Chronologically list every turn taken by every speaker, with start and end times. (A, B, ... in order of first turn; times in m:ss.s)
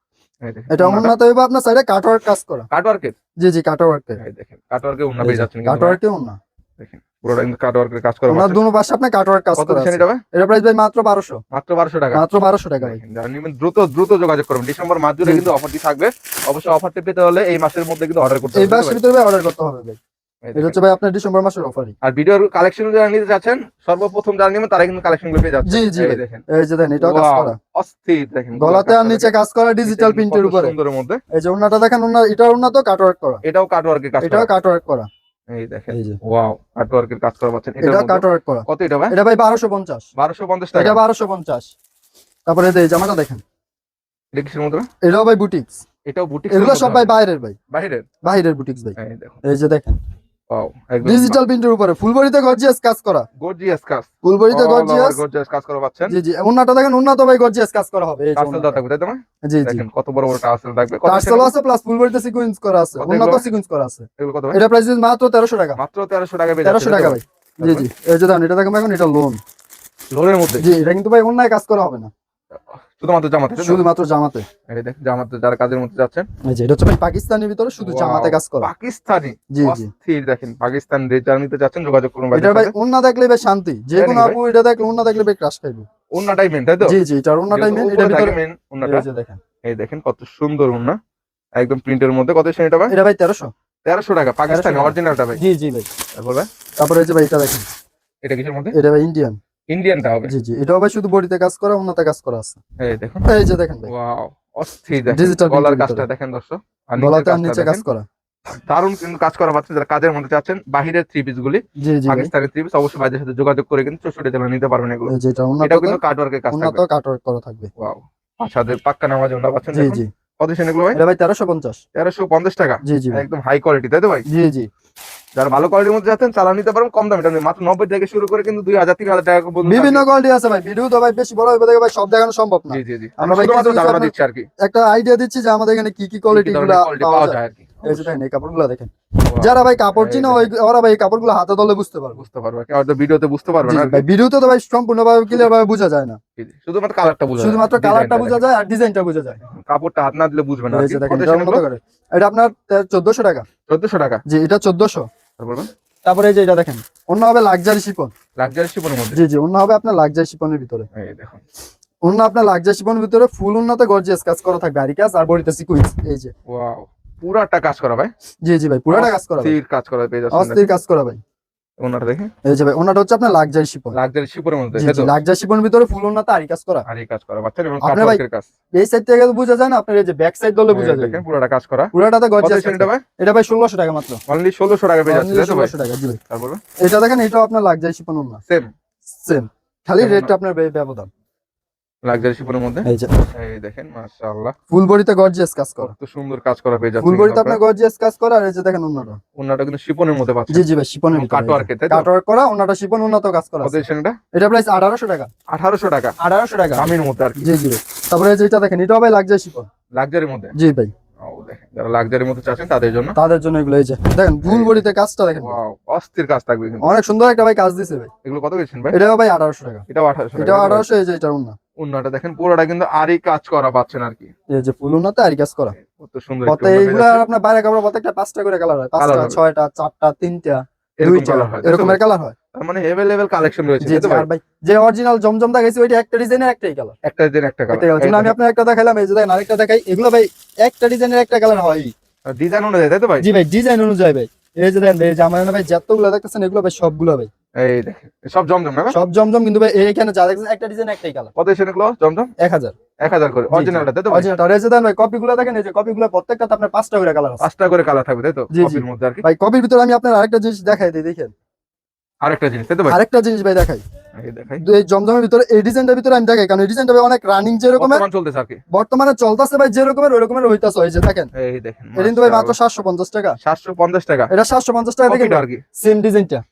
0:00.4-0:01.1 A
0:00.7-0:02.7 B
0:02.7-0:03.2 A
0:03.4-0:04.2 B
0:04.2-0:06.0 A
0:05.2-0:06.4 B
0:06.8-0:08.6 A
0:08.3-0:11.4 B
0:09.6-0:10.2 A
0:11.5-0:12.2 A
0:12.1-0:13.0 B
0:12.8-0:19.0 A
0:18.5-0:20.0 B
0:20.4-0:20.8 A
0:20.6-0:21.9 B
0:22.0-0:26.4 A
0:25.7-0:27.6 B
0:27.0-0:29.3 A
0:28.6-0:30.7 B
0:29.8-0:31.2 A
0:31.3-0:33.4 B
0:33.4-0:34.5 A
0:34.2-0:35.1 B
0:35.5-0:39.1 A
0:35.9-0:36.2 B
0:37.8-0:40.1 B
0:40.2-0:41.0 A
0:40.8-0:41.7 B
0:42.5-0:43.4 B
0:44.3-0:44.9 A
0:45.0-0:45.8 B
0:46.1-0:47.1 A
0:46.5-0:47.6 B
0:47.7-0:48.0 A
0:48.2-0:50.0 B
0:49.0-0:49.4 A
0:50.5-0:51.4 A
0:51.0-0:53.3 B
0:53.4-0:56.2 A
0:54.2-0:55.2 B
0:56.1-0:58.8 B
0:58.4-1:01.5 A
0:59.5-0:59.8 B
1:01.0-1:05.8 B
1:03.0-1:03.4 A
1:04.2-1:04.6 A
1:05.8-1:07.9 A
1:06.6-1:09.4 B
1:10.1-1:10.6 A
1:10.6-1:12.1 B
1:12.7-1:13.9 A
1:13.6-1:14.4 B
1:14.7-1:16.3 A
1:16.5-1:18.7 B
1:17.8-1:22.7 A
1:19.5-1:19.9 B
1:22.3-1:25.9 B
1:24.0-1:24.4 A
1:26.1-1:27.0 A
1:26.8-1:29.4 B
1:27.5-1:29.1 A
1:29.6-1:31.0 A
1:31.6-1:32.9 A
1:32.9-1:33.5 B
1:33.8-1:35.4 A
1:34.5-1:35.9 B
1:36.2-1:36.5 A
1:36.8-1:37.7 B
1:38.2-1:38.8 A
1:38.7-1:39.4 B
1:39.7-1:40.3 A
1:40.2-1:42.6 B
1:42.8-1:43.2 A
1:43.2-1:43.9 B
1:43.9-1:47.8 A
1:45.1-1:46.1 B
1:47.0-1:48.0 B
1:48.7-1:55.1 A
1:51.8-1:52.3 B
1:55.1-1:56.0 B
1:55.6-1:56.8 A
1:56.5-1:57.7 B
1:57.8-2:01.0 A
1:59.7-2:00.1 B
2:00.9-2:01.8 B
2:02.0-2:04.3 A
2:02.8-2:03.2 B
2:04.3-2:04.7 B
2:05.4-2:10.0 A
2:09.6-2:22.2 B
2:12.7-2:14.5 A
2:16.3-2:18.1 A
2:19.3-2:20.5 A
2:22.2-2:24.0 A
2:23.6-2:26.2 B
2:26.4-2:28.4 A
2:27.4-2:29.4 B
2:29.5-2:31.6 A
2:30.7-2:33.5 B
2:33.7-2:34.2 A
2:34.3-2:35.1 B
2:35.4-2:35.7 A
2:36.0-2:38.1 B
2:38.4-2:39.2 A
2:39.1-2:40.9 B
2:40.9-2:41.4 A
2:42.0-2:46.3 B
2:46.5-2:48.1 A
2:48.4-2:49.6 B
2:48.9-2:50.7 A
2:50.3-2:51.2 B
2:51.8-2:52.3 A
2:52.4-2:54.0 B
2:53.9-2:55.1 A
2:54.8-2:56.8 B
2:56.9-2:58.4 A
2:57.8-2:58.2 B
2:58.8-3:01.2 B
3:00.7-3:03.0 A
3:01.9-3:04.2 B
3:04.3-3:05.7 A
3:05.1-3:06.2 B
3:06.3-3:06.6 A
3:06.8-3:08.4 B
3:09.2-3:11.1 B
3:10.0-3:10.3 A
3:12.0-3:14.5 A
3:14.7-3:15.9 B
3:15.8-3:17.6 A
3:17.0-3:19.2 B
3:19.4-3:22.1 A
3:20.5-3:25.3 B
3:23.6-3:24.2 A
3:25.5-3:26.2 A
3:26.2-3:29.7 B
3:26.8-3:27.5 A
3:29.9-3:30.5 A
3:30.6-3:30.9 B
3:31.2-3:33.2 A
3:33.2-3:35.6 B
3:34.4-3:34.8 A
3:35.4-3:36.9 A
3:36.8-3:38.1 B
3:38.2-3:39.0 A
3:38.9-3:39.8 B
3:39.9-3:40.9 A
3:40.4-3:41.6 B
3:41.8-3:44.3 A
3:44.5-3:45.8 B
3:45.8-3:47.2 A
3:46.5-3:52.4 B
3:49.0-3:49.4 A
3:51.0-3:52.0 A
3:52.5-3:54.3 A
3:53.8-3:57.0 B
3:57.0-3:58.4 A
3:57.7-4:01.9 B
4:02.3-4:03.3 A
4:03.2-4:07.3 B
4:07.6-4:09.0 A
4:08.9-4:11.3 B
4:11.4-4:12.3 A
4:12.4-4:12.8 B
4:13.0-4:14.3 A
4:13.5-4:17.4 B
4:17.4-4:19.2 A
4:18.5-4:21.3 B
4:22.2-4:23.0 A
4:22.9-4:23.8 B
4:24.2-4:24.6 A
4:24.6-4:28.0 B
4:27.8-4:28.6 A
4:28.7-4:31.3 B
4:31.3-4:32.6 A
4:32.0-4:33.4 B
4:33.4-4:34.3 A
4:34.3-4:36.4 B
4:35.1-4:35.6 A